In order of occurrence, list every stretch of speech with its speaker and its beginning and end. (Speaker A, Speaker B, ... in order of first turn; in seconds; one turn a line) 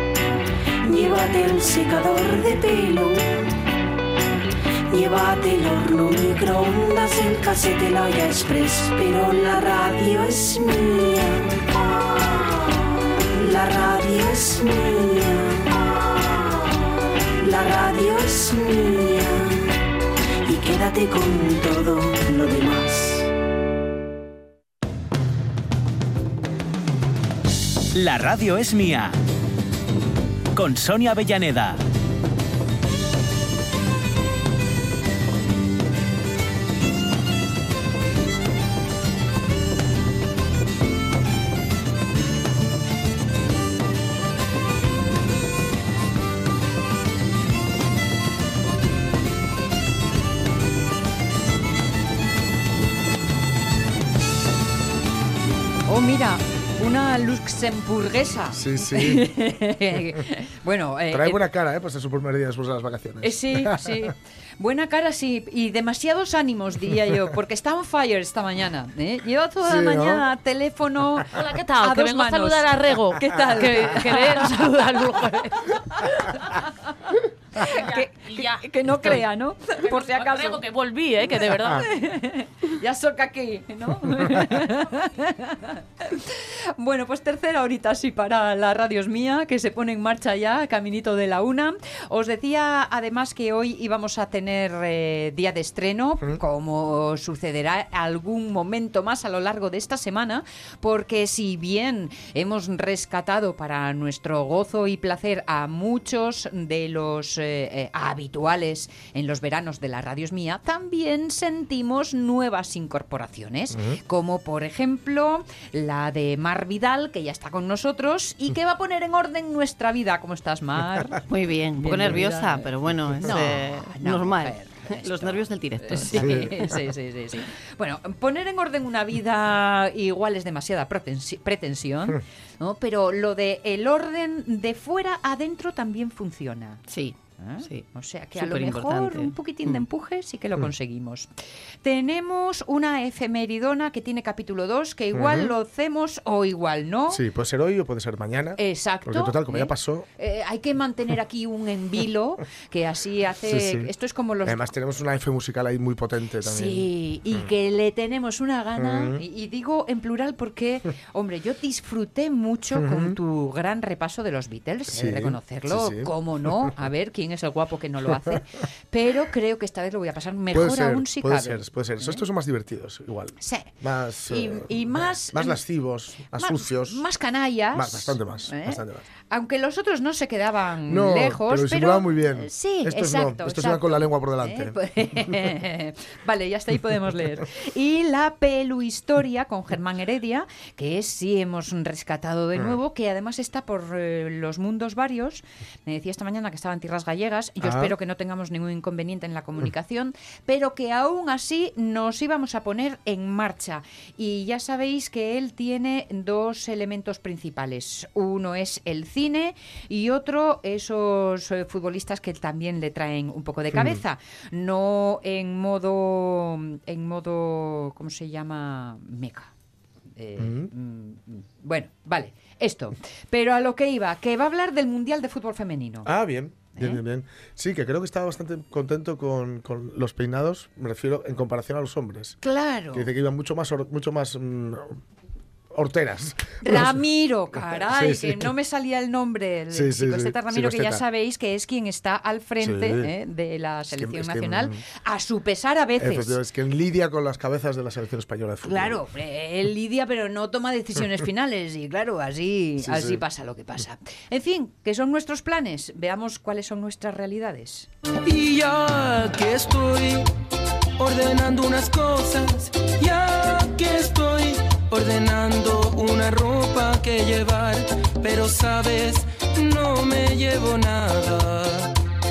Speaker A: 0.8-3.5
Speaker A: 4.9-19.6
Speaker A: 20.4-23.3
Speaker B: 27.9-29.2
Speaker B: 30.6-31.8
Speaker C: 55.9-61.4
Speaker D: 58.5-59.5
Speaker D: 61.1-64.1
Speaker C: 63.2-76.6
Speaker D: 69.6-70.3
Speaker E: 71.3-76.3
Speaker C: 77.1-80.7
Speaker E: 77.6-79.2
Speaker E: 79.8-81.9
Speaker C: 81.6-121.2
Speaker F: 121.3-126.8
Speaker C: 121.8-122.7
Speaker C: 123.2-136.8
Speaker D: 126.2-126.6
Speaker F: 136.9-139.3
Speaker C: 137.4-141.3
Speaker C: 141.8-147.2
Speaker D: 145.1-145.5
Speaker D: 147.1-150.1
Speaker C: 148.6-154.7
Speaker D: 153.4-153.9
Speaker D: 154.4-157.5
Speaker C: 156.4-172.2
Speaker D: 158.8-159.2
Speaker D: 162.8-163.2
Speaker D: 164.9-166.7
Speaker D: 170.5-177.1
Speaker C: 173.4-173.7
Speaker C: 174.3-175.6
Speaker C: 176.2-219.5
Speaker D: 177.7-179.1
Speaker D: 180.9-185.5
Speaker D: 197.6-197.9
Speaker D: 213.7-214.0
Speaker C: 220.2-226.1
Speaker D: 220.4-220.7
Speaker D: 226.1-232.4
Speaker C: 226.8-227.0
Speaker C: 232.4-233.1
Speaker D: 232.9-235.0
Speaker D: 235.7-237.0
Speaker C: 236.6-246.4
Speaker D: 237.7-238.5
Speaker D: 239.7-241.0
Speaker D: 242.6-243.1
Speaker D: 243.9-244.8
Speaker D: 246.0-249.0
Speaker C: 248.6-257.9
Speaker D: 252.8-253.2
Speaker G: 258.2-260.3
Speaker G: 261.0-271.9